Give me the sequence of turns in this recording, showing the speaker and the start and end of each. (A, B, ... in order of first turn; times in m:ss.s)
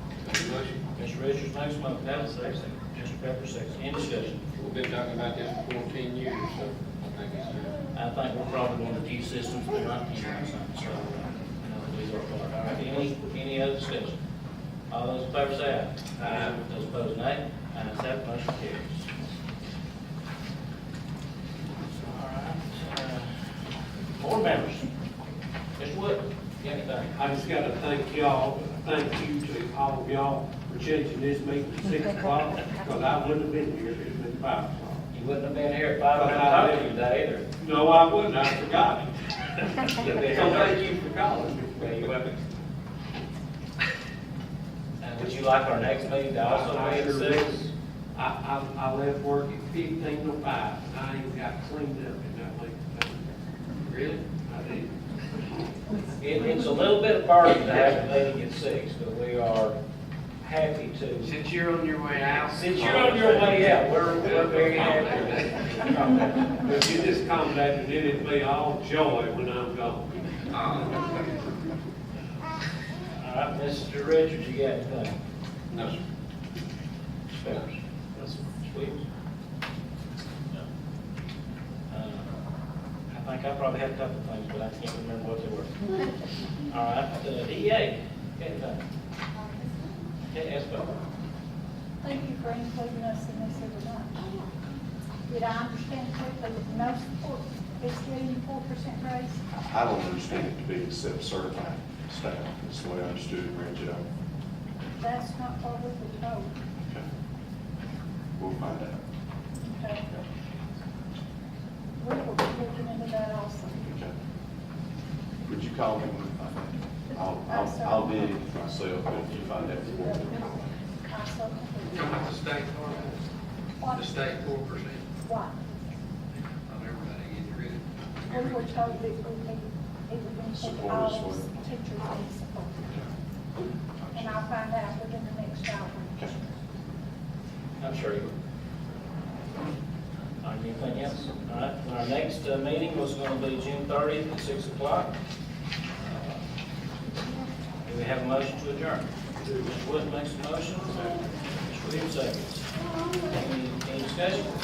0:00.2-0:00.8 A
0:00.9-0:04.4 B
0:04.6-0:07.8 A
0:07.9-0:14.2 B
0:14.9-0:19.1 B
0:16.3-0:16.5 A
0:21.8-0:23.4 B
0:24.2-0:24.9 B
0:25.8-0:27.1 B
0:27.2-0:35.0 C
0:35.1-0:37.5 B
0:36.4-0:36.8 C
0:37.6-0:39.1 C
0:40.0-0:40.8 B
0:40.1-0:42.1 C
0:41.8-0:42.1 B
0:45.0-0:47.7 B
0:46.5-0:47.5 C
0:48.2-0:53.2 C
0:53.9-0:54.2 A
0:54.5-0:54.9 C
0:56.2-0:59.8 B
1:00.4-1:01.4 B
1:01.2-1:03.7 A
1:02.5-1:06.7 B
1:04.5-1:05.5 A
1:06.6-1:10.1 C
1:10.5-1:11.2 A
1:13.1-1:15.2 B
1:15.7-1:16.0 A
1:17.4-1:19.0 B
1:21.9-1:22.3 B
1:23.1-1:25.9 B
1:26.7-1:28.8 B
1:30.3-1:30.9 B
1:32.0-1:34.3 D
1:35.3-1:39.4 D
1:39.6-1:44.0 E
1:45.0-1:46.5 D
1:46.8-1:47.1 E
1:48.4-1:49.0 E
1:49.6-1:50.1 D
1:52.0-1:53.8 D
1:53.8-1:54.2 E
1:55.5-2:00.7 E
1:57.1-1:58.4 D
2:01.1-2:02.1 D
2:01.9-2:03.2 A
2:03.8-2:04.3 D
2:04.0-2:05.0 A
2:05.2-2:05.6 D
2:06.6-2:08.9 A
2:08.3-2:12.9 D
2:10.5-2:11.5 E
2:12.9-2:13.1 E
2:14.0-2:14.4 E
2:14.1-2:16.3 D
2:17.8-2:18.3 B
2:20.4-2:25.1 B
2:26.0-2:26.4 B
2:27.8-2:32.7 B
2:33.2-2:34.5 B